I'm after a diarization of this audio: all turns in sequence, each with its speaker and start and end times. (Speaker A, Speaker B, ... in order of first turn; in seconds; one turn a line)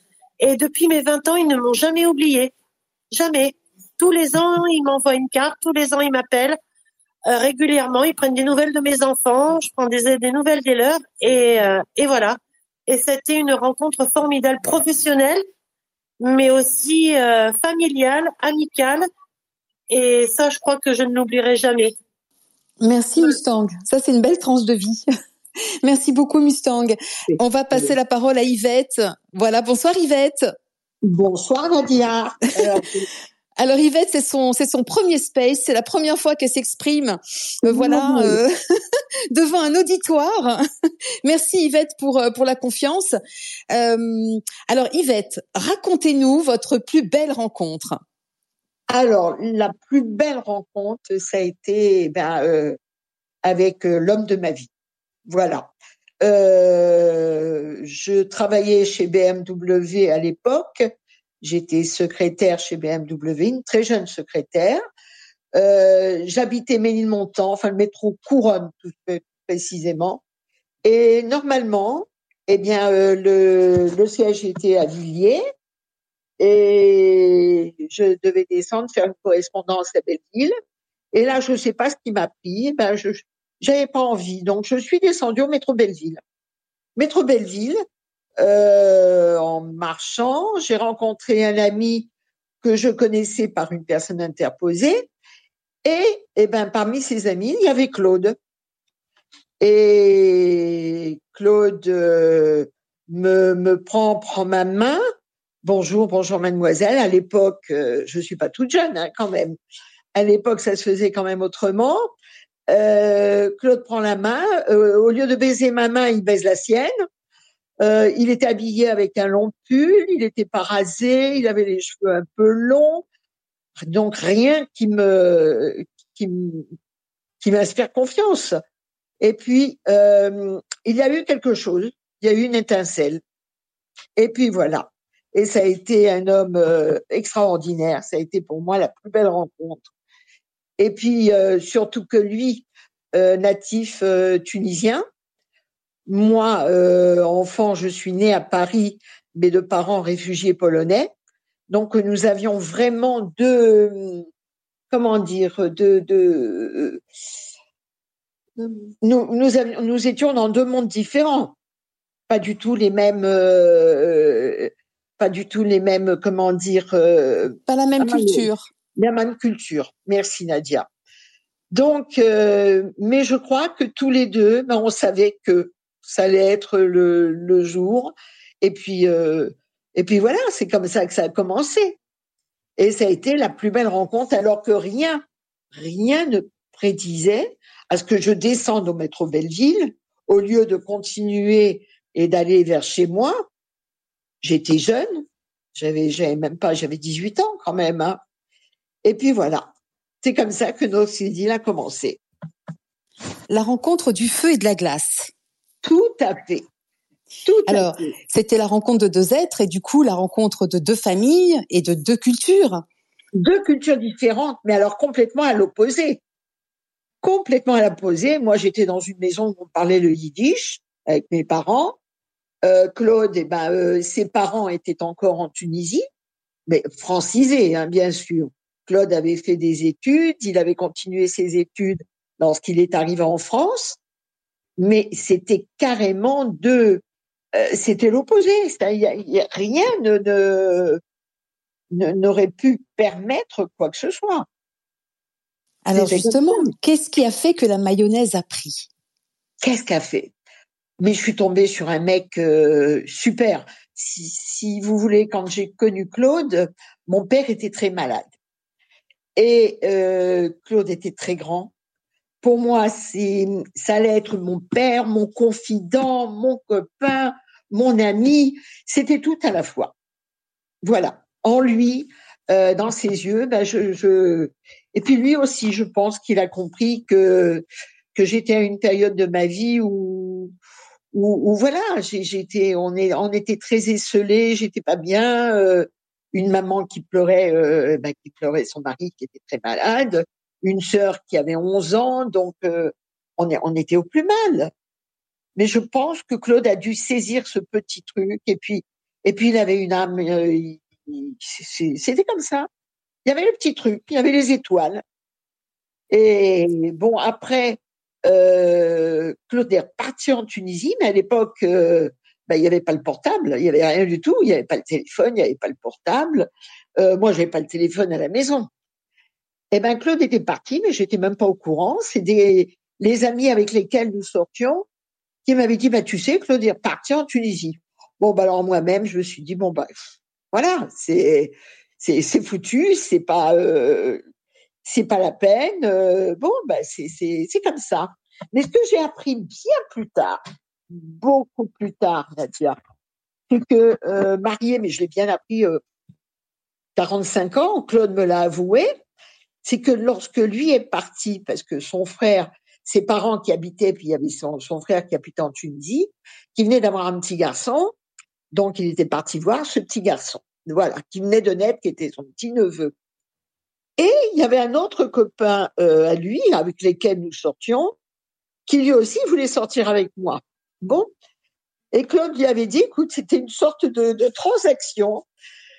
Speaker A: 0.4-2.5
Speaker A: 3.1-6.6
Speaker A: 7.3-15.4
Speaker A: 16.2-19.1
Speaker A: 19.9-22.0
Speaker B: 22.8-25.0
Speaker B: 25.8-30.5
Speaker C: 27.3-27.9
Speaker C: 31.1-33.1
Speaker B: 33.6-38.5
Speaker C: 37.6-38.4
Speaker B: 39.3-40.6
Speaker B: 41.2-43.2
Speaker B: 43.7-48.0
Speaker C: 48.9-52.8
Speaker C: 53.4-54.7
Speaker C: 55.3-55.7
Speaker C: 56.2-60.9
Speaker C: 61.4-64.8
Speaker C: 65.5-70.2
Speaker C: 70.8-75.4
Speaker C: 76.4-80.5
Speaker C: 81.1-86.2
Speaker C: 87.0-87.8
Speaker C: 88.4-92.1
Speaker C: 92.6-95.1
Speaker C: 95.8-98.4
Speaker C: 99.6-105.0
Speaker C: 105.6-109.6
Speaker C: 110.2-112.1
Speaker C: 112.7-116.9
Speaker C: 117.8-123.0
Speaker C: 123.8-126.7
Speaker C: 127.4-128.6
Speaker C: 129.2-133.2
Speaker C: 134.2-139.9
Speaker C: 140.8-145.0
Speaker C: 146.1-151.1
Speaker C: 151.7-154.3
Speaker C: 154.9-157.0
Speaker C: 158.6-161.5
Speaker C: 162.3-170.9
Speaker B: 167.7-168.7
Speaker C: 171.7-182.0
Speaker C: 182.8-193.4
Speaker C: 194.4-195.2
Speaker C: 195.8-198.2
Speaker C: 199.0-199.7
Speaker C: 200.2-202.2
Speaker B: 203.5-205.3
Speaker C: 205.8-206.7
Speaker C: 207.4-208.1
Speaker B: 207.7-212.8
Speaker C: 213.4-216.2
Speaker C: 217.2-222.0
Speaker C: 222.6-226.0
Speaker C: 226.7-234.0
Speaker C: 234.8-237.0
Speaker C: 237.6-241.0
Speaker C: 241.9-244.5
Speaker B: 245.9-248.9
Speaker C: 245.9-246.7
Speaker C: 249.6-250.3
Speaker C: 251.0-258.3
Speaker C: 259.4-261.7
Speaker C: 262.4-269.9
Speaker C: 270.8-277.6
Speaker C: 278.1-280.5
Speaker C: 281.1-294.7
Speaker C: 295.6-302.7
Speaker C: 303.2-305.0
Speaker C: 306.1-318.7
Speaker C: 319.7-324.9
Speaker C: 325.5-329.9
Speaker C: 330.5-334.2
Speaker C: 334.9-340.4
Speaker C: 340.9-342.8
Speaker C: 343.5-345.8
Speaker C: 347.0-348.9
Speaker C: 349.6-357.9
Speaker C: 358.5-362.9
Speaker C: 364.0-367.9
Speaker C: 368.7-371.1
Speaker C: 371.9-375.2